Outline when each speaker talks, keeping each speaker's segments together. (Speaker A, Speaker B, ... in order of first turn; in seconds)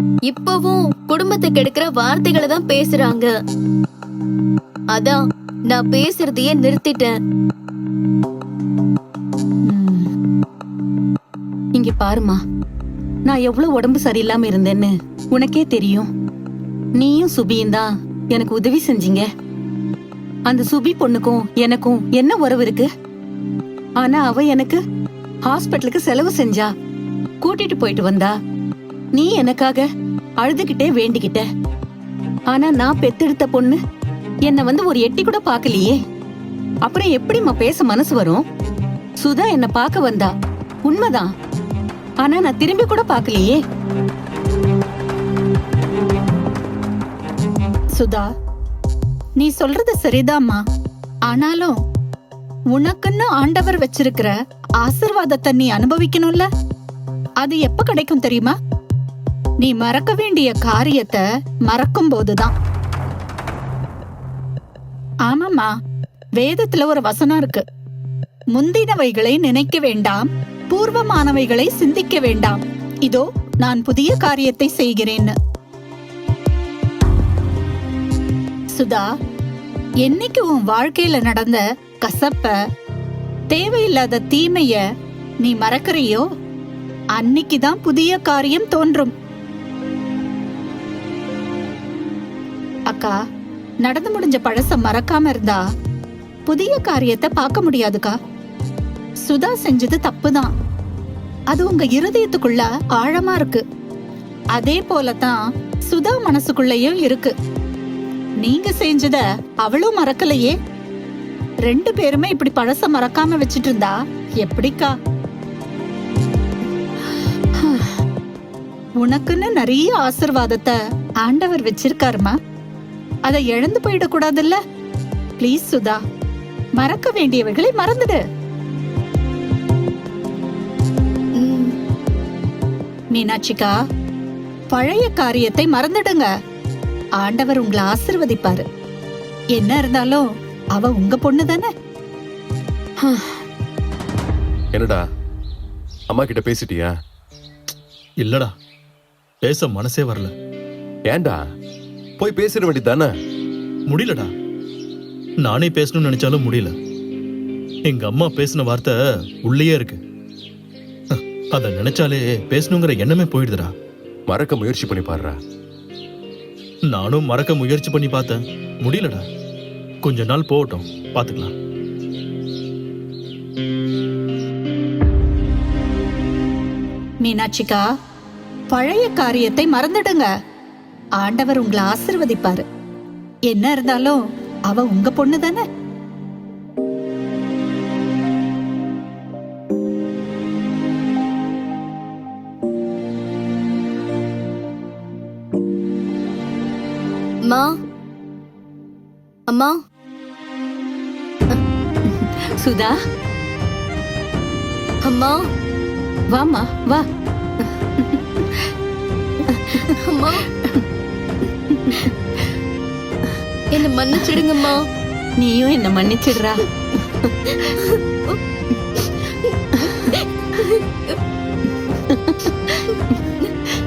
Speaker A: 0.3-3.3, 4.9-5.2, 5.7-7.1, 131.4-131.7, 197.4-197.7, 199.5-199.8, 205.1-205.4, 209.8-210.4, 213.7-214.8, 217.6-218.4, 219.8-221.2
Speaker B: 9.7-10.1, 48.0-48.2, 49.4-50.6, 51.3-51.7, 52.7-56.5, 57.4-58.5, 59.6-62.5, 65.3-65.7, 66.4-67.6, 68.5-75.3, 78.7-79.0, 80.0-82.5, 83.5-84.8, 85.4-86.2, 87.2-89.1, 92.9-93.2, 93.8-95.6, 96.5-98.1, 99.2-100.5, 101.5-103.6, 104.5-105.4, 105.9-107.3, 108.4-110.5, 111.7-114.9, 119.0-122.3, 123.3-124.6, 125.4-126.0, 126.8-128.2, 133.1-133.7, 134.7-136.3, 137.2-138.6, 139.6-140.2, 140.8-141.7, 177.2-177.8, 178.7-180.3, 181.2-182.6, 183.5-184.2, 184.7-185.6
Speaker C: 11.8-12.4, 13.3-16.1, 17.0-19.2, 20.5-22.9, 24.0-24.8, 25.5-26.7, 27.4-28.3, 29.1-29.8, 30.4-31.4, 32.5-33.8, 34.5-36.0, 36.8-38.4, 39.2-40.3, 40.9-41.3, 42.2-43.6, 143.1-143.3, 202.1-202.9, 206.3-207.0, 207.6-208.7, 209.5-209.8, 211.7-212.1, 215.4-216.7, 219.8-220.1, 221.8-222.9
Speaker D: 144.7-145.0, 146.1-146.9, 151.1-151.4, 152.2-153.1, 164.3-165.3
Speaker E: 148.2-148.5, 149.4-150.3, 153.9-154.3, 155.4-156.8, 157.8-160.0, 161.1-163.7, 166.9-169.2, 170.0-171.5